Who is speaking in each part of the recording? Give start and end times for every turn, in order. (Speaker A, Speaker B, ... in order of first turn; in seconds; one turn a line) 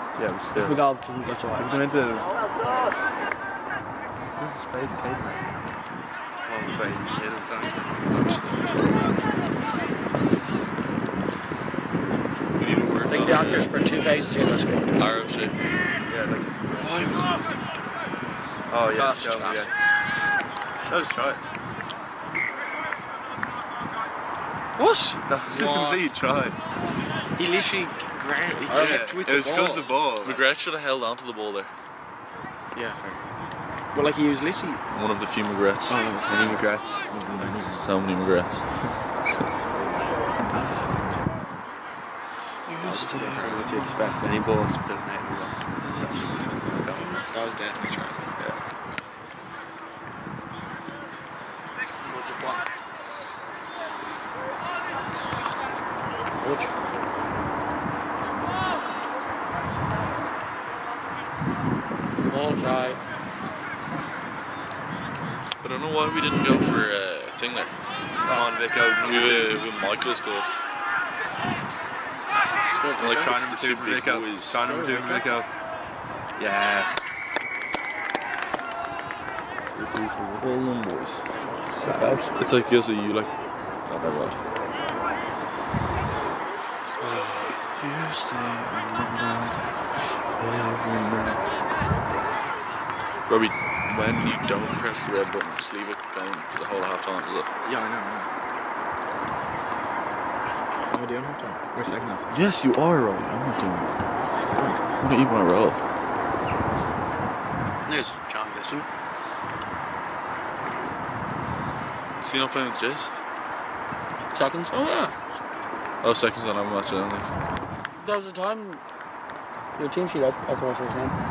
Speaker A: 0.1-0.8
Speaker B: 0.6-1.8
Speaker A: 1.5-2.2
Speaker A: 4.4-5.6
Speaker A: 6.4-8.0
Speaker C: 12.6-13.7
Speaker B: 13.1-14.9
Speaker C: 15.0-15.6
Speaker A: 16.1-17.1
Speaker C: 16.8-17.4
Speaker A: 18.7-19.8
Speaker B: 18.9-19.7
Speaker A: 20.9-21.4
Speaker C: 24.8-25.2
Speaker A: 25.2-26.1
Speaker D: 25.5-26.1
Speaker C: 25.7-26.6
Speaker D: 27.4-30.0
Speaker A: 28.7-30.4
Speaker C: 28.9-31.7
Speaker D: 32.7-33.0
Speaker D: 33.9-34.8
Speaker C: 34.9-36.0
Speaker D: 35.9-36.7
Speaker A: 36.3-37.7
Speaker D: 37.3-37.8
Speaker C: 37.6-39.0
Speaker D: 40.5-41.1
Speaker C: 42.6-44.2
Speaker D: 42.8-44.0
Speaker A: 42.9-45.6
Speaker C: 45.8-46.5
Speaker A: 46.7-47.2
Speaker D: 47.3-48.4
Speaker B: 52.0-52.6
Speaker B: 56.4-56.7
Speaker B: 62.3-63.0
Speaker C: 65.6-67.7
Speaker A: 68.2-69.7
Speaker C: 69.0-70.5
Speaker D: 72.7-73.3
Speaker C: 73.0-74.6
Speaker A: 73.0-75.5
Speaker D: 74.5-75.3
Speaker A: 76.4-77.2
Speaker A: 79.7-80.6
Speaker C: 80.4-81.2
Speaker B: 81.7-82.3
Speaker C: 82.3-83.3
Speaker C: 83.9-84.4
Speaker C: 87.0-89.7
Speaker D: 90.4-91.3
Speaker C: 93.3-97.5
Speaker D: 97.6-98.3
Speaker D: 100.9-102.3
Speaker C: 102.3-103.9
Speaker C: 105.0-105.8
Speaker B: 107.8-108.9
Speaker C: 112.2-113.1
Speaker B: 114.3-115.1
Speaker C: 116.0-117.3
Speaker B: 118.0-118.8
Speaker B: 119.8-121.1